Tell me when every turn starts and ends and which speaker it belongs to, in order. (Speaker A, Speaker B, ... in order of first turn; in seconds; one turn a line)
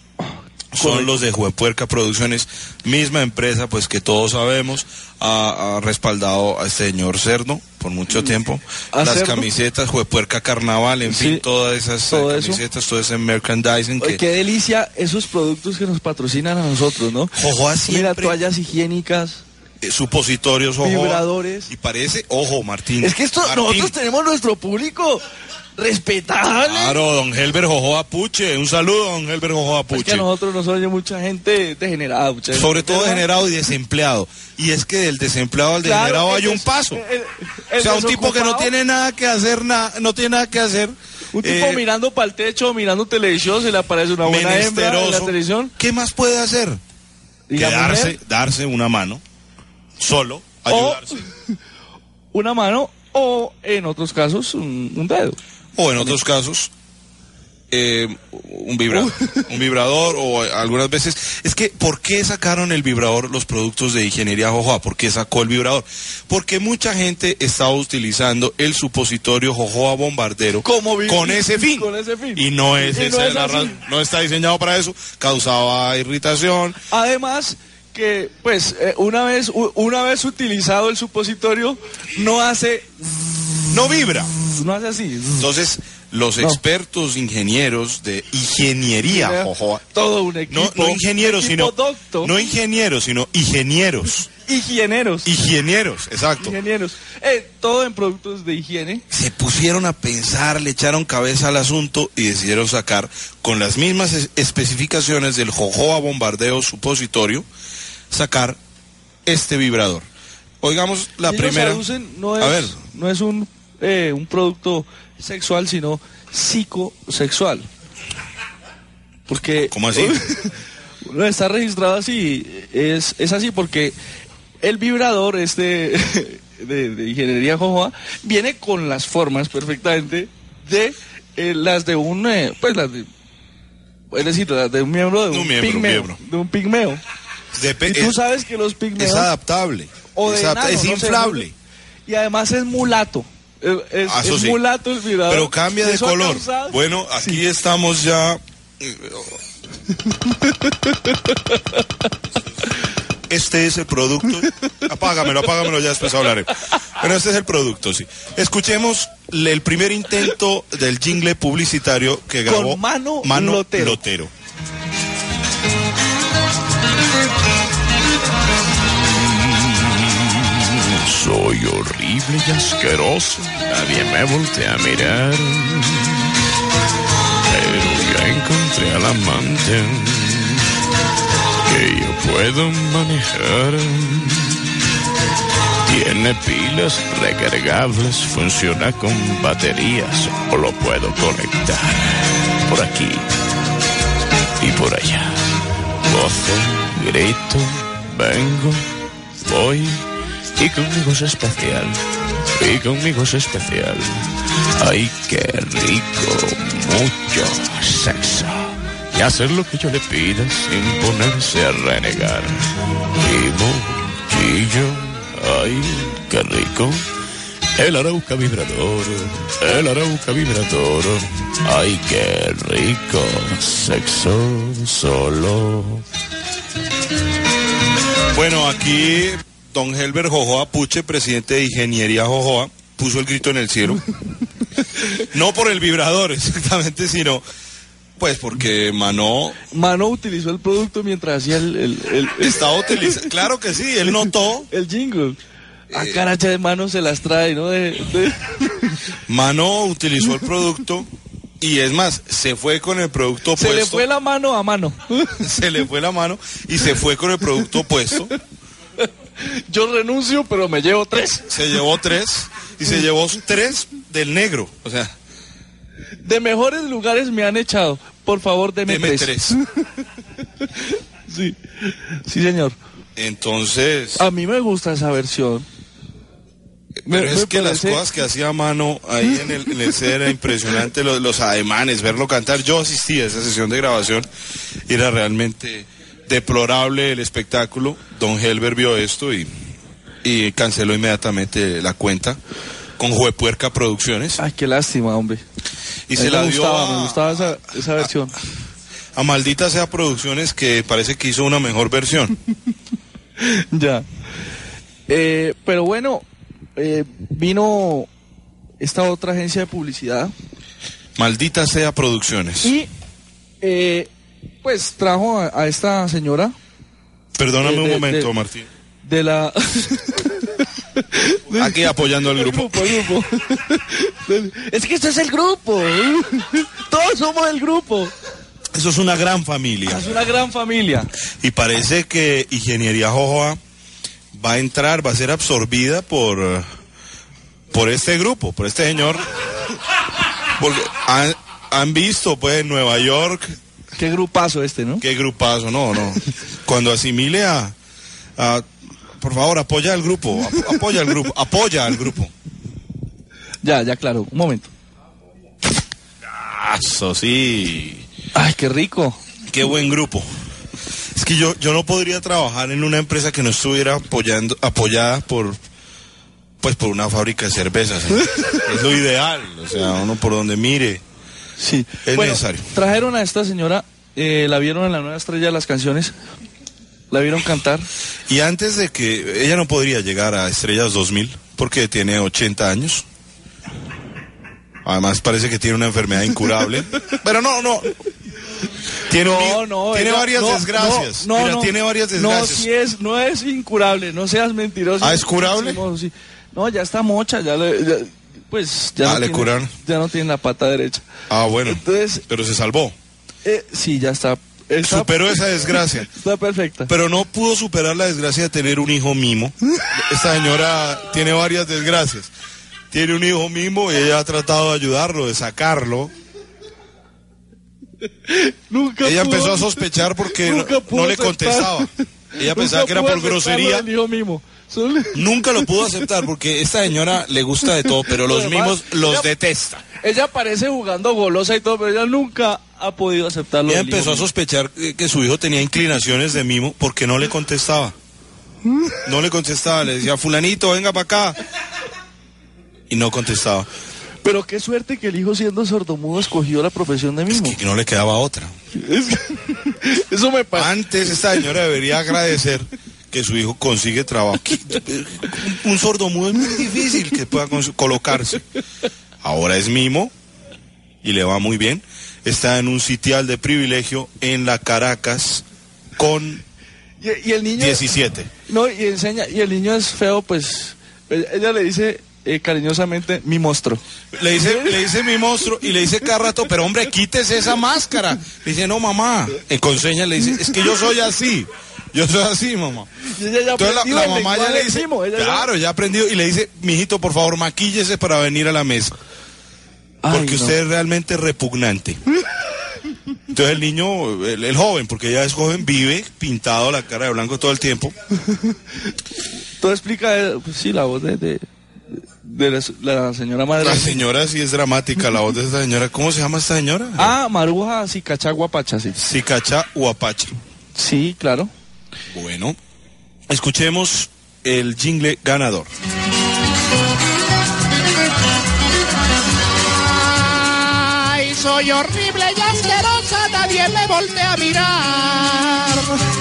Speaker A: 0.7-14.2
Speaker B: 0.8-1.1
Speaker B: 8.9-9.5
Speaker B: 11.1-11.4
Speaker B: 12.1-12.6
Speaker B: 14.0-17.4
Speaker A: 17.3-18.4
Speaker B: 17.9-19.4
Speaker A: 19.8-23.9
Speaker B: 20.8-21.7
Speaker B: 23.0-25.2
Speaker B: 25.8-27.0
Speaker A: 26.6-30.3
Speaker B: 29.9-33.2
Speaker A: 32.5-37.0
Speaker B: 35.8-38.7
Speaker A: 37.8-41.8
Speaker B: 41.3-45.7
Speaker A: 44.2-46.8
Speaker B: 47.5-48.2
Speaker A: 47.5-49.2
Speaker A: 50.0-51.2
Speaker B: 50.7-51.3
Speaker B: 52.3-55.4
Speaker A: 55.8-56.7
Speaker A: 57.7-76.8
Speaker B: 58.9-59.5
Speaker B: 70.6-73.8
Speaker B: 76.9-85.5
Speaker A: 83.7-84.3
Speaker A: 85.4-89.8
Speaker B: 89.0-92.3
Speaker A: 90.5-94.3
Speaker B: 94.4-95.3
Speaker A: 95.2-96.6
Speaker B: 96.4-99.0
Speaker A: 99.1-107.5
Speaker A: 108.1-108.6
Speaker A: 109.2-110.1
Speaker A: 110.6-111.8
Speaker B: 111.2-117.7
Speaker A: 112.4-112.8
Speaker B: 119.3-124.0
Speaker A: 119.7-120.3
Speaker B: 124.6-133.1
Speaker B: 134.1-137.0
Speaker A: 135.3-136.2
Speaker A: 137.5-138.2
Speaker B: 137.8-139.3
Speaker A: 139.0-141.5
Speaker B: 140.1-141.4
Speaker B: 142.1-147.4
Speaker A: 144.1-144.6
Speaker A: 145.3-149.4
Speaker A: 153.3-164.3
Speaker B: 162.4-164.0
Speaker C: 169.1-176.3
Speaker C: 177.5-180.7
Speaker C: 181.7-184.6
Speaker C: 185.8-193.2
Speaker C: 194.6-195.4
Speaker C: 196.0-200.0
Speaker C: 200.6-202.0
Speaker C: 202.6-204.2
Speaker C: 204.8-212.6
Speaker C: 213.2-217.0
Speaker C: 217.8-226.0
Speaker A: 228.3-234.1
Speaker A: 235.2-237.4
Speaker A: 238.2-239.6
Speaker B: 239.7-243.2
Speaker A: 242.4-244.7
Speaker B: 244.7-245.4
Speaker A: 245.9-246.2
Speaker B: 245.9-249.0
Speaker A: 249.3-251.1
Speaker A: 251.6-254.0
Speaker B: 253.6-255.4
Speaker A: 255.4-258.3
Speaker B: 259.0-261.6
Speaker A: 261.4-265.1
Speaker B: 266.2-269.8
Speaker A: 268.9-269.6
Speaker B: 270.6-272.8
Speaker A: 273.1-274.3
Speaker B: 274.1-275.6
Speaker A: 277.1-284.3
Speaker B: 277.1-278.0
Speaker A: 284.9-289.5
Speaker A: 290.2-292.4
Speaker A: 293.0-294.4
Speaker B: 294.4-295.4
Speaker A: 296.1-298.1
Speaker B: 296.1-298.3
Speaker A: 299.1-302.4
Speaker B: 303.4-304.0
Speaker B: 305.1-306.2
Speaker B: 306.8-308.1
Speaker B: 308.8-310.3
Speaker A: 311.1-312.8
Speaker B: 312.6-312.9
Speaker B: 313.6-314.1
Speaker B: 314.6-316.5
Speaker A: 317.4-318.7
Speaker B: 317.6-318.3
Speaker B: 319.0-328.1
Speaker A: 321.5-322.9
Speaker A: 328.7-330.1
Speaker B: 329.9-331.1
Speaker A: 331.4-333.6
Speaker A: 334.3-336.6
Speaker A: 337.7-339.3
Speaker A: 340.6-343.5
Speaker B: 343.9-345.0
Speaker A: 345.0-347.7
Speaker A: 348.4-348.6
Speaker A: 349.2-352.3
Speaker B: 353.6-354.7
Speaker A: 356.3-358.0
Speaker B: 358.3-359.2
Speaker A: 359.5-360.3
Speaker A: 361.1-365.6
Speaker A: 366.6-371.0
Speaker B: 371.6-376.1
Speaker A: 372.0-372.7
Speaker B: 377.1-377.9
Speaker A: 378.3-383.0
Speaker A: 384.8-387.9
Speaker A: 389.1-392.7
Speaker B: 389.2-401.1
Speaker A: 395.0-395.8
Speaker A: 399.0-399.7
Speaker A: 401.3-402.9
Speaker B: 401.6-402.2
Speaker B: 403.4-406.9
Speaker A: 404.8-406.1
Speaker A: 406.9-412.3
Speaker A: 412.9-416.1
Speaker B: 418.3-419.7
Speaker A: 419.0-423.9
Speaker B: 420.3-425.7
Speaker A: 425.1-429.8
Speaker B: 428.0-429.3
Speaker B: 430.0-434.3
Speaker A: 433.6-437.9
Speaker A: 439.0-441.4
Speaker A: 442.9-443.7
Speaker B: 444.2-447.6
Speaker A: 447.3-448.5
Speaker B: 448.7-451.4
Speaker A: 450.5-458.4
Speaker A: 459.2-460.1
Speaker A: 461.0-465.4
Speaker A: 466.0-466.4
Speaker B: 467.0-467.9
Speaker A: 467.6-468.3
Speaker B: 468.5-473.8
Speaker A: 474.1-482.9
Speaker B: 474.4-474.8
Speaker B: 483.1-485.5
Speaker A: 483.5-488.9
Speaker B: 490.0-490.6
Speaker A: 490.1-492.0
Speaker A: 493.3-497.9
Speaker B: 498.3-498.6
Speaker B: 499.6-504.0
Speaker A: 503.6-507.1
Speaker B: 507.0-509.0
Speaker A: 508.9-510.4
Speaker B: 510.8-511.5
Speaker A: 512.1-512.6
Speaker A: 513.3-515.7
Speaker D: 519.7-526.0